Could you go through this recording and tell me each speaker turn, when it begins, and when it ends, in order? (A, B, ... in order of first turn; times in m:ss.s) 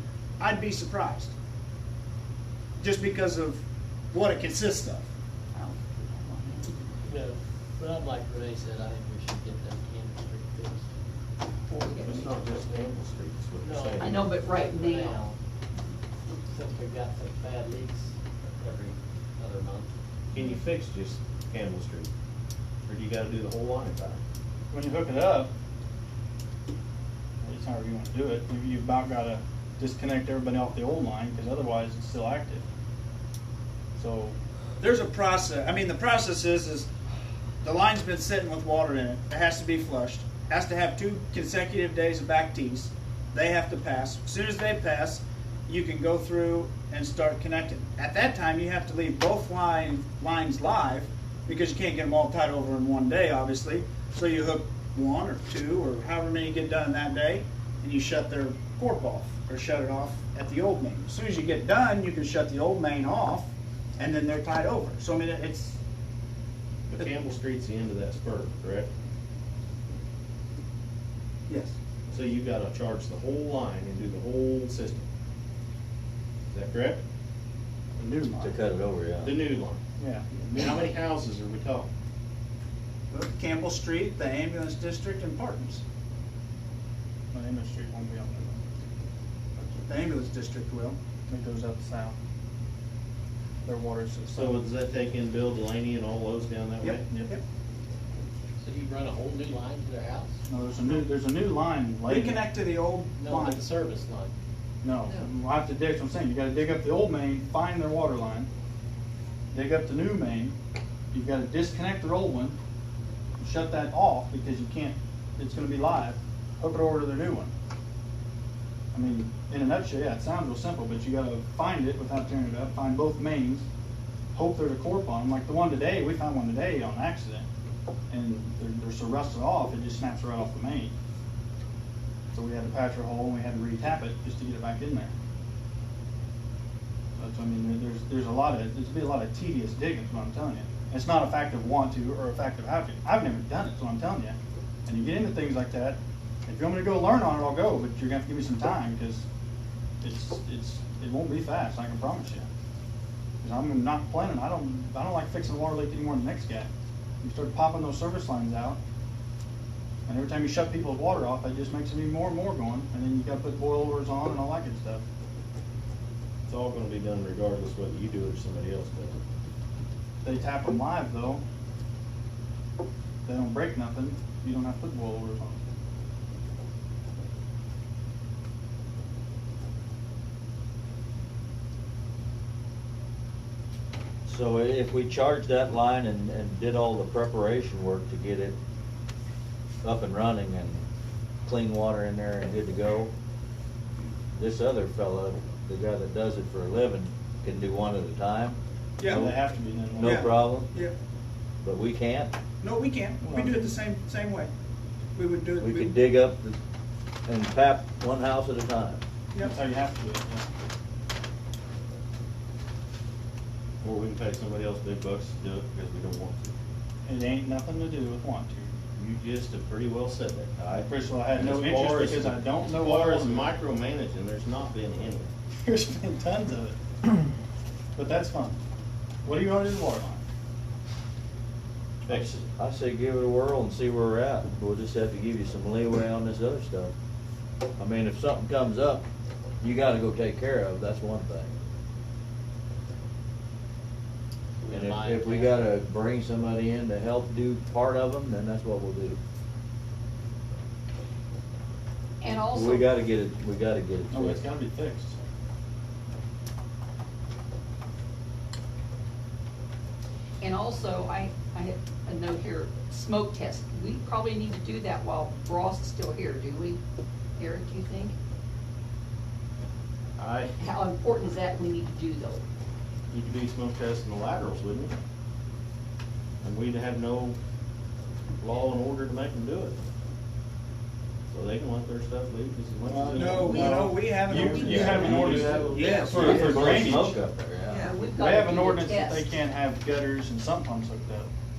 0:00.4-0:01.3 A
0:02.8-0:05.1 A
0:05.5-0:06.8 B
0:07.0-0:10.9 C
0:11.7-0:12.3 B
0:11.9-0:14.3 D
0:13.6-0:15.4 C
0:14.0-0:15.2 B
0:16.5-0:19.9 C
0:20.3-0:22.1 D
0:22.8-0:24.2 D
0:24.7-0:25.5 E
0:27.4-0:32.6 E
0:34.0-0:34.4 E
0:34.8-0:36.9 A
0:37.6-1:05.8 A
1:06.9-1:08.9 D
1:11.5-1:11.8 A
1:12.1-1:15.0 D
1:16.5-1:17.0 D
1:18.0-1:18.5 E
1:18.4-1:19.3 F
1:19.2-1:19.8 D
1:20.0-1:20.4 E
1:20.4-1:21.9 D
1:23.1-1:25.8 A
1:27.3-1:28.6 E
1:29.8-1:31.0 A
1:31.3-1:32.2 E
1:33.6-1:34.6 E
1:34.3-1:37.0 D
1:36.8-1:37.4 A
1:38.6-1:40.3 C
1:40.5-1:42.5 E
1:42.0-1:43.6 A
1:43.2-1:44.3 C
1:44.8-1:48.5 E
1:49.5-1:50.6 E
1:51.1-1:52.6 E
1:53.4-1:57.5 E
1:58.9-2:03.7 E
2:04.3-2:07.5 E
2:08.1-2:10.9 E
2:12.3-2:15.1 E
2:17.2-2:29.3 E
2:30.0-2:32.5 E
2:33.4-2:36.7 E
2:37.2-2:38.8 E
2:40.0-2:45.0 E
2:46.5-2:49.2 D
2:50.2-2:51.4 E
2:53.2-2:55.6 E
3:04.2-3:08.6 F
3:09.8-3:10.8 F
3:11.4-3:13.1 F
3:14.4-3:19.4 F
3:19.0-3:19.3 A
3:19.1-3:20.3 E
3:19.9-3:20.7 F
3:20.0-3:20.9 A
3:21.6-3:22.3 F
3:22.6-3:24.5 A
3:23.2-3:23.7 E
3:25.1-3:25.9 A
3:25.6-3:26.6 F
3:27.2-3:29.0 F
3:29.4-3:30.5 E
3:33.8-3:36.5 D
3:37.0-3:38.8 E
3:38.9-3:45.3 D
3:40.7-3:43.5 E
3:45.6-3:46.8 E
3:48.0-3:48.6 E
3:49.2-3:50.2 E
3:52.0-3:52.4 D
3:52.1-3:56.9 F
3:57.8-3:59.0 F
3:59.6-4:01.5 F
4:04.6-4:05.6 C
4:04.7-4:09.2 F
4:12.2-4:12.9 B
4:12.5-4:14.4 F
4:14.1-4:15.2 E
4:20.4-4:26.8 B
4:27.4-4:28.1 B
4:30.2-4:30.5 D
4:30.6-4:32.4 B
4:33.1-4:34.9 D
4:36.4-4:37.4 D
4:38.4-4:39.8 D
4:41.3-4:43.8 D
4:42.9-4:47.2 E
4:43.1-4:46.6 A
4:43.4-4:45.2 B
4:44.5-4:47.9 F
4:44.9-4:47.1 D
4:47.7-4:49.3 B
4:48.1-4:51.3 E